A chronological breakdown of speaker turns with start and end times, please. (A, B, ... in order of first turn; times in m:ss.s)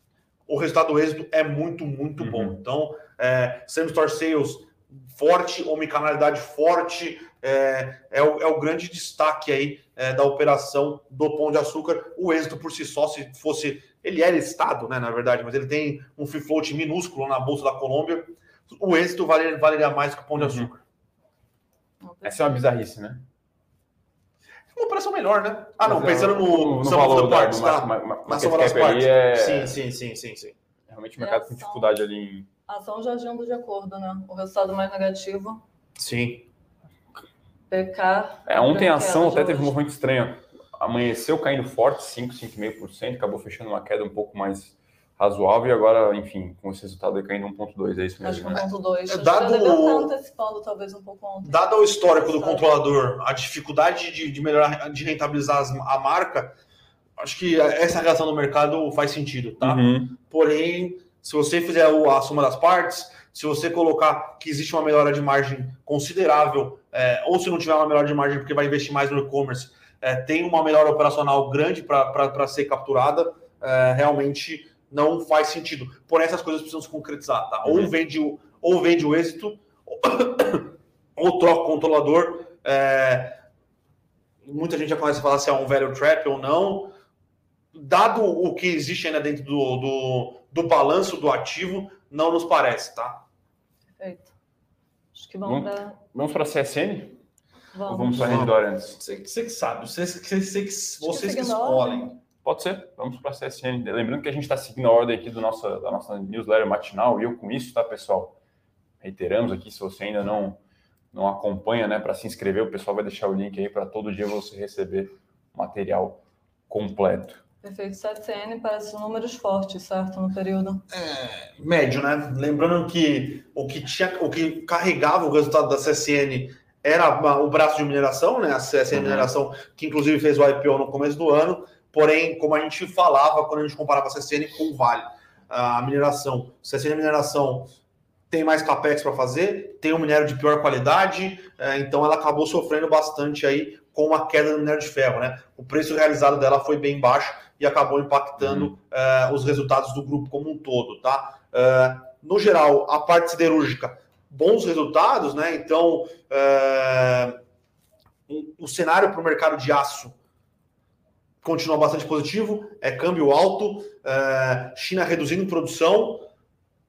0:00.5-0:20.8 A
0:02.2-0:02.6 B
0:20.4-0:20.7 B
0:22.0-0:22.5 C
0:22.2-0:23.2 B
0:24.7-0:30.6 A
0:25.8-0:29.8 B
0:30.9-0:32.5 B
0:31.2-0:32.0 C
0:32.7-0:35.6 C
0:36.0-0:36.4 A
0:37.7-0:39.7 C
0:38.5-0:48.7 B
0:48.2-0:52.7 C
0:49.1-0:50.1 A
0:51.4-0:56.5 A
0:57.2-1:23.4 A
0:59.6-1:00.1 B
1:17.6-1:17.9 B
1:24.4-1:26.9 A
1:27.7-1:33.2 A
1:34.0-1:34.3 C
1:35.1-1:36.0 C
1:35.4-1:37.2 B
1:37.7-1:38.3 C
1:37.9-1:39.0 B
1:38.1-1:42.2 A
1:41.0-1:42.1 C
1:42.4-1:48.3 B
1:49.0-1:50.6 B
1:51.1-1:57.4 B
1:57.6-2:00.8 C
2:00.9-2:17.7 A
2:08.9-2:09.3 B
2:18.3-2:37.4 A
2:28.4-2:28.7 B
2:38.3-2:40.1 A
2:41.4-2:46.3 A